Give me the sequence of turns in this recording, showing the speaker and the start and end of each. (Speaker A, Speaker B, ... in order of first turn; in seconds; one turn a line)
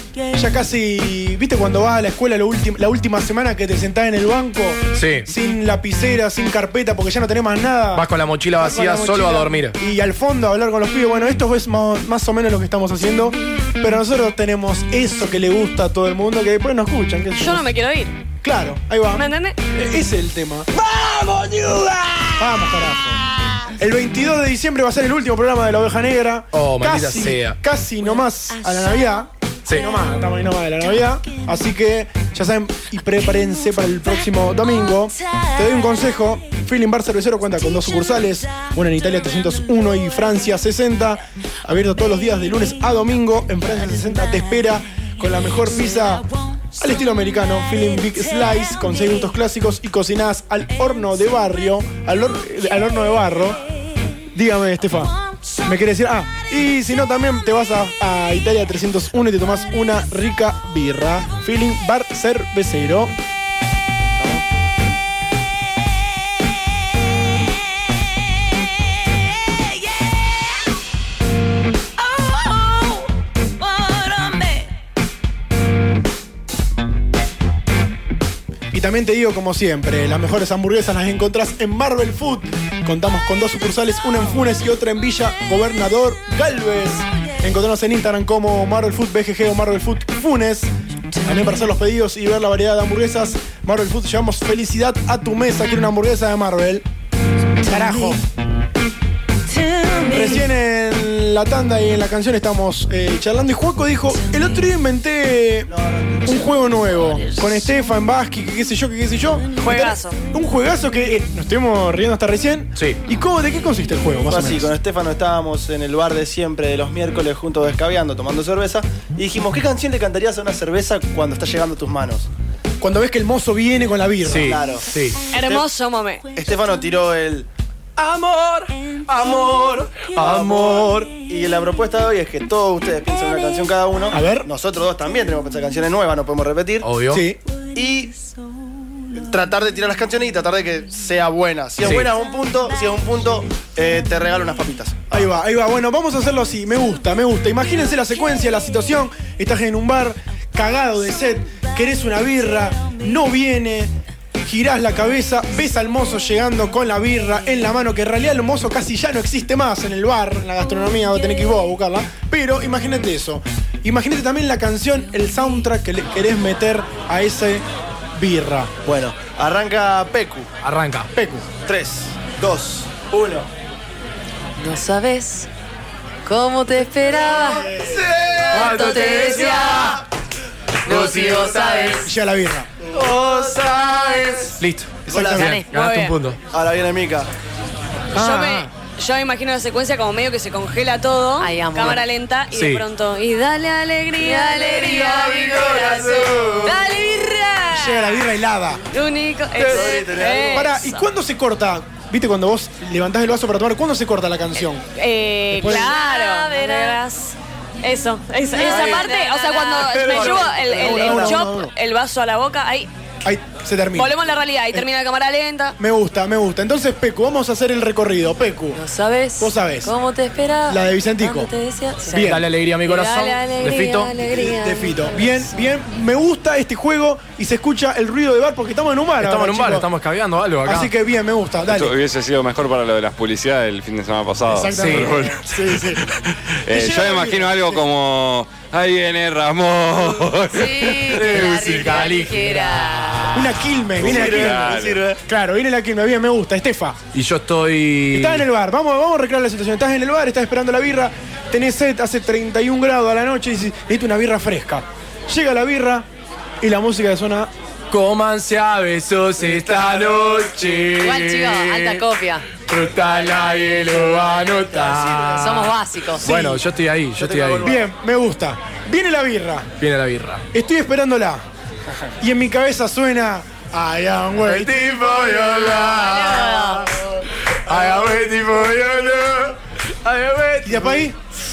Speaker A: 0.3-17.7
Speaker B: 4.9-5.3
Speaker B: 7.9-9.8
Speaker C: 17.4-18.2
Speaker A: 18.4-20.7
Speaker C: 19.1-19.6
Speaker A: 22.3-23.2
Speaker A: 23.8-53.6
Speaker B: 26.5-27.6
Speaker A: 54.3-63.1
Speaker D: 64.2-64.4
Speaker A: 78.7-90.7
Speaker A: 91.2-96.8
Speaker A: 97.6-98.2
Speaker A: 100.0-105.7
Speaker D: 105.7-107.1
Speaker A: 106.2-114.7
Speaker C: 109.6-110.2
Speaker D: 114.3-122.3
Speaker A: 122.8-124.6
Speaker B: 124.2-125.2
Speaker D: 124.3-125.7
Speaker C: 125.3-126.2
Speaker D: 126.3-127.5
Speaker B: 128.0-131.1
Speaker D: 129.2-136.9
Speaker A: 134.1-134.5
Speaker B: 136.8-137.2
Speaker A: 137.1-137.4
Speaker D: 137.7-138.2
Speaker D: 139.1-145.2
Speaker B: 141.8-142.1
Speaker A: 145.1-168.7
Speaker D: 168.8-170.5
Speaker B: 170.6-171.1
Speaker A: 171.1-171.5
Speaker D: 171.6-173.5
Speaker E: 174.6-175.5
Speaker E: 176.2-177.7
Speaker A: 177.3-178.0
Speaker B: 178.3-180.0
Speaker E: 178.5-180.0
Speaker E: 180.8-182.1
Speaker B: 180.8-181.9
Speaker A: 182.0-182.8
Speaker D: 182.9-184.4
Speaker B: 184.6-186.4
Speaker A: 185.1-185.6
Speaker D: 185.1-185.6
Speaker E: 185.3-185.7
Speaker C: 185.7-186.2
Speaker D: 186.5-187.3
Speaker A: 188.1-188.7
Speaker C: 188.1-198.3
Speaker E: 191.4-192.0
Speaker B: 192.5-192.8
Speaker E: 194.2-195.7
Speaker D: 194.7-196.8
Speaker A: 197.7-198.8
Speaker C: 198.9-201.0
Speaker D: 199.6-200.7
Speaker A: 200.5-204.8
Speaker C: 204.9-212.9
Speaker A: 205.5-206.0
Speaker E: 205.7-206.9
Speaker E: 208.5-210.5
Speaker A: 208.6-209.0
Speaker D: 209.8-211.4
Speaker A: 209.9-211.7
Speaker A: 213.2-214.2
Speaker C: 213.9-215.8
Speaker A: 215.8-218.8
Speaker E: 218.7-222.4
Speaker A: 219.4-219.9
Speaker A: 220.7-221.5
Speaker A: 222.1-222.5
Speaker B: 222.2-224.1
Speaker C: 222.8-225.2
Speaker A: 224.2-229.9
Speaker B: 229.2-230.9
Speaker A: 230.6-231.9
Speaker F: 231.7-241.7
Speaker A: 234.5-236.0
Speaker B: 234.7-235.2
Speaker A: 236.7-237.8
Speaker E: 240.5-243.4
Speaker B: 241.1-243.5
Speaker A: 243.3-247.0
Speaker D: 244.0-245.2
Speaker F: 244.0-245.0
Speaker B: 247.1-248.4
Speaker A: 248.1-256.1
Speaker A: 256.6-257.5
Speaker B: 257.9-262.0
Speaker E: 260.9-262.5
Speaker B: 262.6-267.7
Speaker D: 264.5-265.5
Speaker E: 265.3-266.3
Speaker A: 266.2-266.6
Speaker D: 267.1-267.9
Speaker A: 267.6-269.7
Speaker B: 269.8-270.4
Speaker A: 270.5-271.4
Speaker A: 272.2-275.3
Speaker B: 274.4-276.9
Speaker E: 275.8-276.9
Speaker B: 277.6-281.1
Speaker A: 280.6-281.2